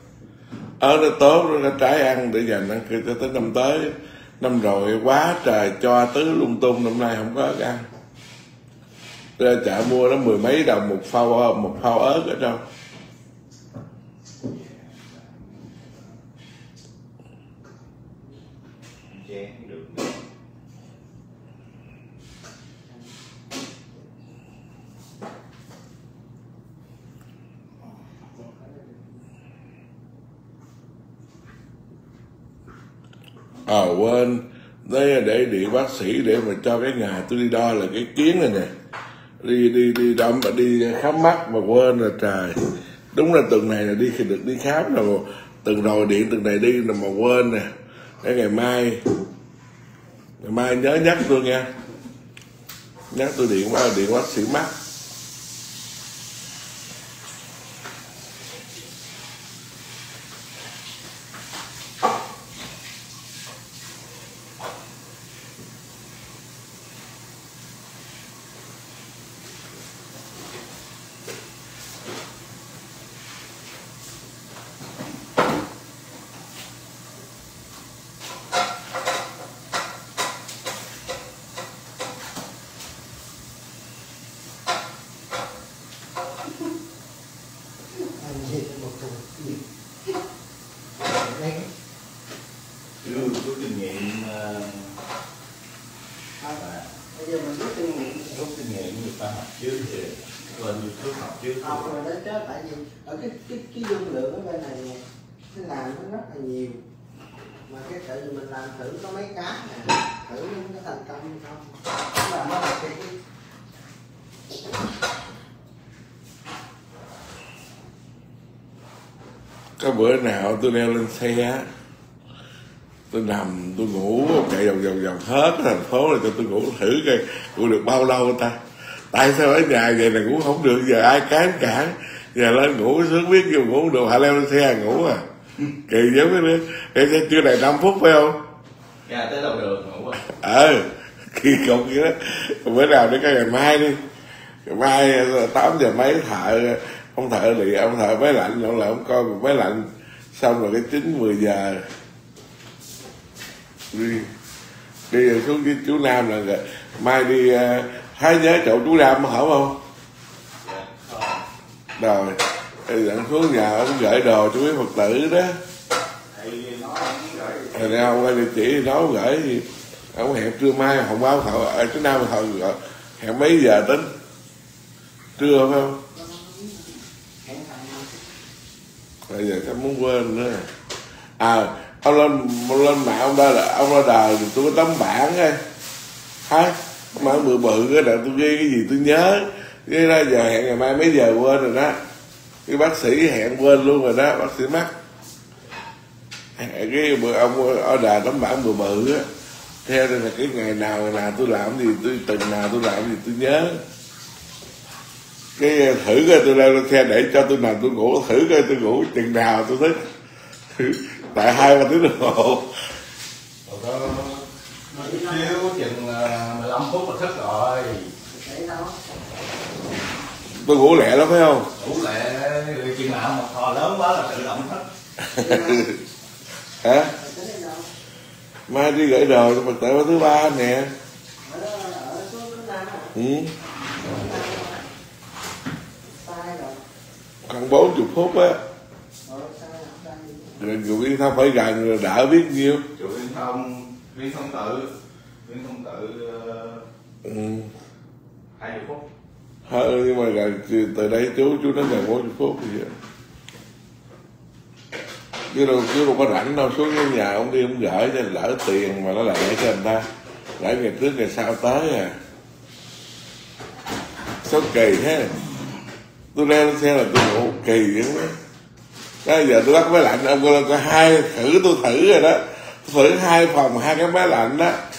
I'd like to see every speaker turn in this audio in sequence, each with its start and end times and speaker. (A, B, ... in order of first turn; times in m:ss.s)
0:00.8-0:07.9 A
0:09.4-0:12.6 A
0:14.4-0:15.4 B
0:19.1-0:20.1 B
0:22.9-0:23.1 C
0:28.3-0:29.2 C
0:33.7-0:38.7 A
0:39.4-0:42.6 A
0:43.1-0:47.7 A
0:48.2-0:49.0 A
0:50.4-0:51.7 A
0:53.1-0:54.7 A
1:28.0-1:29.6 C
1:31.0-1:31.7 C
1:33.0-1:34.9 B
1:36.4-1:38.3 C
1:36.6-1:36.9 B
1:38.3-1:41.9 B
1:41.6-1:46.8 C
1:47.7-1:53.2 C
1:59.8-2:01.7 A
2:03.1-2:08.6 A
2:09.1-2:15.2 A
2:15.9-2:18.4 A
2:19.1-2:20.2 B
2:20.3-2:24.0 A
2:24.6-2:31.8 A
2:33.9-2:34.3 A
2:35.1-2:39.8 A
2:40.6-2:41.4 B
2:42.0-2:45.6 A
2:46.3-2:47.8 B
2:47.1-2:47.7 C
2:47.7-2:54.1 A
2:55.4-2:56.0 A
2:56.1-2:58.2 C
2:59.3-3:00.7 A
3:01.4-3:05.6 A
3:06.5-3:12.0 A
3:12.7-3:14.9 A
3:16.6-3:19.3 A
3:19.8-3:23.8 A
3:25.6-3:30.1 A
3:30.7-3:32.7 A
3:33.7-3:38.1 B
3:34.9-3:35.6 C
3:38.3-3:39.0 C
3:40.6-3:41.7 A
3:41.8-3:44.8 B
3:45.4-3:45.9 A
3:45.4-3:46.0 C
3:46.8-3:47.1 A
3:47.2-3:47.9 C
3:48.7-3:50.9 A
3:51.4-3:53.1 C
3:53.2-3:53.5 A
3:53.9-3:54.8 C
3:56.1-3:56.8 C
3:57.5-3:58.6 A
3:59.2-4:00.6 C
4:00.6-4:02.8 A
4:03.0-4:04.9 B
4:05.4-4:06.8 B
4:07.2-4:07.7 A
4:08.6-4:09.0 B
4:09.7-4:12.9 A
4:15.5-4:20.1 A
4:20.6-4:22.2 A
4:24.4-4:25.3 A
4:26.3-4:28.4 A
4:29.2-4:34.8 A